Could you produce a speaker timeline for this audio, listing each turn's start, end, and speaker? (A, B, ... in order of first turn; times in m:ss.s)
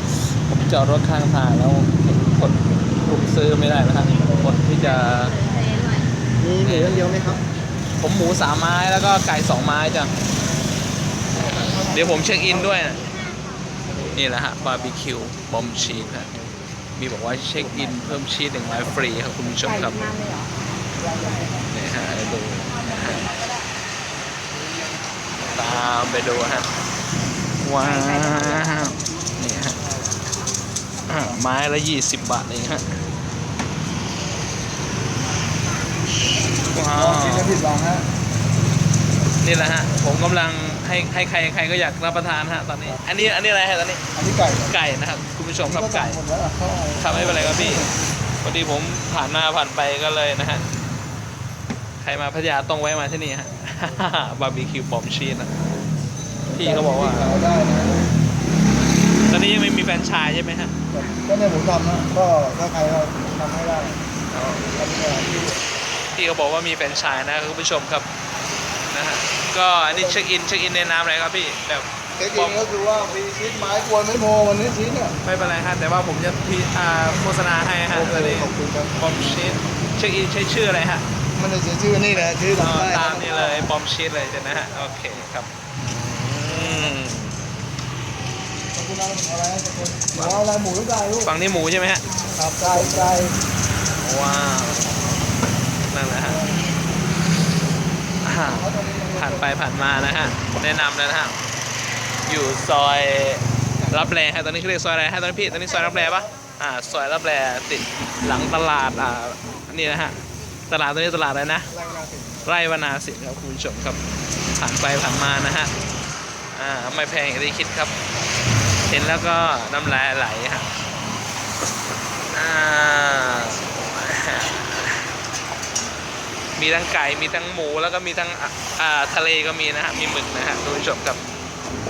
0:00.3-0:05.4 A
0:06.6-0:07.2 A
0:07.0-0:07.4 B
0:08.0-0:10.1 A
0:11.9-0:13.0 A
0:14.1-0:16.3 A
0:17.0-0:20.2 A
0:21.7-0:23.2 A
0:25.5-0:26.7 A
0:27.6-0:29.8 A
0:31.1-0:33.0 A
0:36.7-0:37.6 A
0:36.9-0:38.0 B
0:39.4-0:44.0 A
0:44.1-0:44.7 B
0:44.7-0:46.2 A
0:45.6-0:48.0 B
0:47.0-0:47.9 A
0:48.4-0:50.6 A
0:52.0-0:55.5 A
0:56.5-0:57.4 A
0:56.5-0:58.1 B
0:59.3-1:00.7 A
1:00.9-1:04.0 B
1:04.3-1:04.7 A
1:04.8-1:05.5 B
1:06.1-1:08.1 A
1:08.9-1:12.8 A
1:12.2-1:15.1 B
1:15.2-1:21.0 A
1:17.9-1:19.1 B
1:21.3-1:23.7 B
1:22.1-1:25.5 A
1:26.2-1:26.9 B
1:26.3-1:27.3 A
1:28.7-1:31.3 B
1:30.1-1:30.4 A
1:31.2-1:32.0 A
1:32.4-1:33.3 B
1:34.0-1:35.0 A
1:35.9-1:36.4 A
1:38.2-1:41.4 A
1:38.5-1:39.5 B
1:42.3-1:50.2 A
1:50.7-1:51.7 A
1:51.8-1:52.4 B
1:52.4-1:54.0 A
1:54.6-1:55.7 A
1:56.6-1:57.9 A
1:58.9-2:00.7 A
2:02.3-2:05.1 A
2:06.6-2:11.2 A